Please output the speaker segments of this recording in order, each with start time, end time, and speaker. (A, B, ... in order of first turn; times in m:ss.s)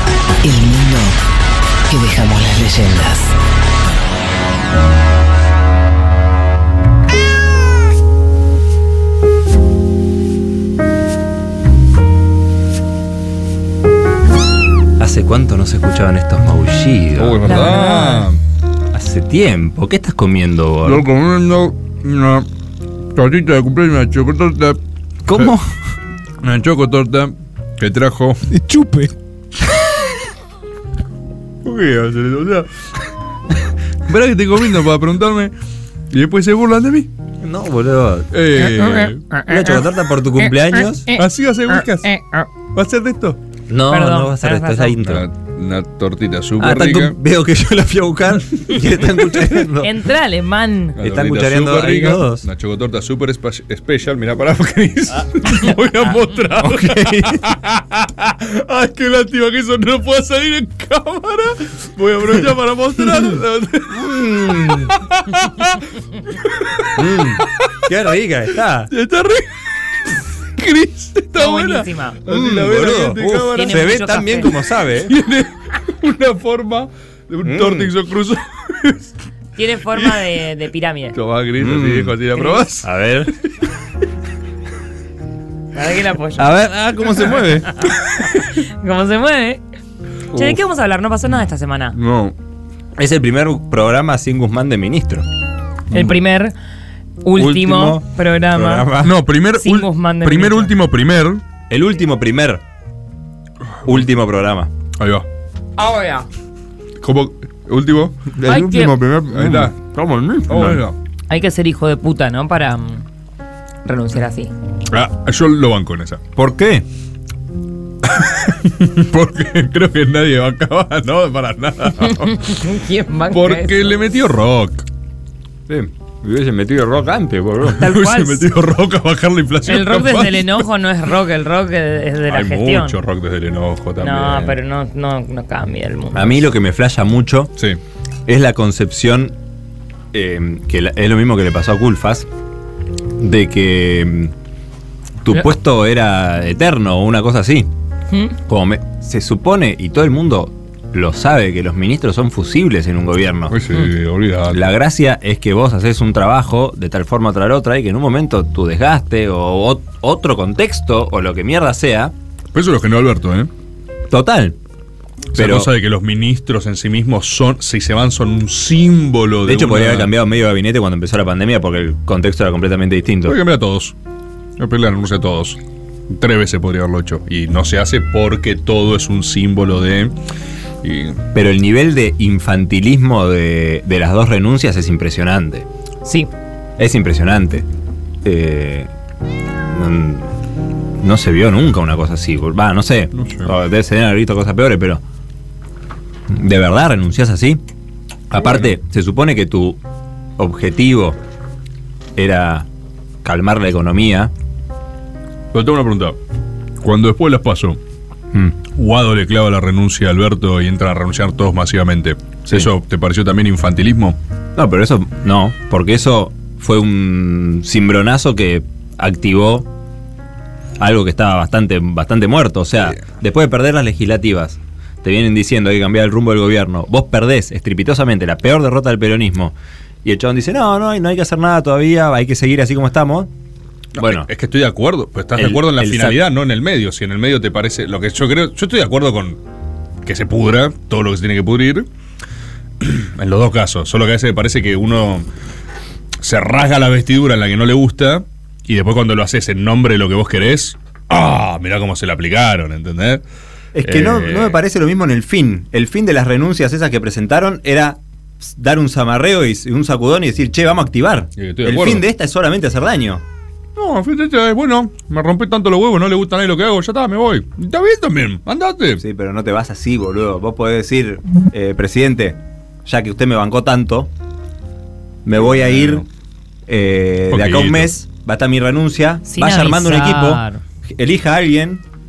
0:00.4-0:01.2 A
0:01.9-0:03.3 A
0:15.0-0:17.6 B
0:17.2-0:18.4 C
0:17.4-0:18.3 D
0:18.9-0:21.1 B
0:20.8-0:22.5 C
0:23.1-0:25.6 C
0:25.3-0:25.6 B
0:26.4-0:29.1 C
0:31.6-0:32.7 C
0:34.0-0:35.5 C
0:36.1-0:37.1 C
0:37.4-0:38.3 B
0:38.3-0:39.2 C
0:38.6-0:39.8 D
0:39.5-0:41.1 B
0:40.8-0:41.2 D
0:41.2-0:43.4 C
0:41.8-0:42.5 D
0:43.7-0:45.3 B
0:43.9-0:45.0 D
0:45.0-0:47.2 C
0:46.6-0:50.0 B
0:49.0-0:49.6 C
0:49.8-0:51.0 D
0:51.0-1:07.9 C
0:51.0-0:52.4 B
0:56.6-0:57.4 B
1:03.9-1:04.9 B
1:07.0-1:08.9 B
1:08.9-1:09.5 C
1:10.6-1:14.1 C
1:11.3-1:12.2 D
1:12.3-1:15.1 B
1:13.5-1:14.6 D
1:14.9-1:19.1 C
1:17.4-1:17.9 B
1:19.6-1:21.2 D
1:20.0-1:20.2 C
1:21.1-1:22.9 C
1:21.6-1:22.2 B
1:22.4-1:22.6 D
1:22.8-1:23.3 B
1:25.7-1:26.5 D
1:26.4-1:27.8 B
1:27.7-1:29.6 D
1:30.3-1:32.0 D
1:30.3-1:30.6 B
1:32.0-1:32.3 C
1:33.0-1:35.2 B
1:35.9-1:36.6 D
1:37.2-1:38.9 D
1:37.4-1:39.2 B
1:39.0-1:41.4 C
1:39.5-1:40.7 D
1:41.7-1:42.6 B
1:43.8-1:44.7 B
1:45.0-1:45.2 C
1:45.8-1:46.3 D
1:47.0-1:49.8 C
1:48.4-1:50.8 B
1:48.4-1:49.0 D
1:50.5-1:51.0 C
1:51.3-1:53.1 D
1:53.8-1:54.5 D
1:54.9-1:56.2 C
1:56.4-1:56.9 B
1:58.1-2:02.4 C
2:02.0-2:04.0 D
2:03.3-2:04.9 C
2:05.7-2:07.8 B
2:07.7-2:10.6 C
2:07.8-2:08.5 D
2:09.6-2:13.0 D
2:12.3-2:14.6 C
2:14.0-2:16.4 D
2:16.1-2:17.5 B
2:18.2-2:19.3 B
2:20.1-2:22.3 B
2:23.2-2:24.3 B
2:25.2-2:27.7 B
2:28.1-2:28.3 D
2:28.5-2:33.6 B
2:33.5-2:34.6 C
2:34.5-2:42.1 B
2:42.5-2:43.5 C
2:44.1-2:44.6 B
2:45.3-2:50.1 C
2:45.3-2:45.7 B
2:49.4-2:53.4 B
2:53.2-2:54.0 C
2:54.6-2:55.6 C
2:56.1-3:00.1 C
3:00.8-3:01.2 C
3:01.3-3:05.6 B
3:06.0-3:06.3 D
3:06.8-3:07.6 B
3:08.2-3:08.9 B
3:09.7-3:10.3 B
3:11.0-3:15.0 B
3:13.2-3:13.5 C
3:16.3-3:17.6 B
3:18.3-3:19.8 B
3:20.4-3:21.2 B
3:22.2-3:22.7 B
3:23.2-3:24.3 B
3:25.5-3:26.2 C
3:26.8-3:27.8 C
3:28.7-3:34.2 C
3:34.6-3:39.7 B
3:40.8-3:53.3 B
3:54.0-3:59.4 C
3:54.0-3:54.3 B
3:55.4-3:56.2 B
4:00.0-4:01.9 C
4:02.8-4:05.2 C
4:06.2-4:13.2 C
4:13.8-4:23.2 B
4:13.8-4:14.6 C
4:21.4-4:22.0 C
4:23.8-4:29.0 C
4:29.0-4:34.1 B
4:35.2-4:36.1 B
4:35.4-4:36.0 C
4:36.7-4:41.8 B
4:37.3-4:37.9 C
4:39.3-4:40.6 D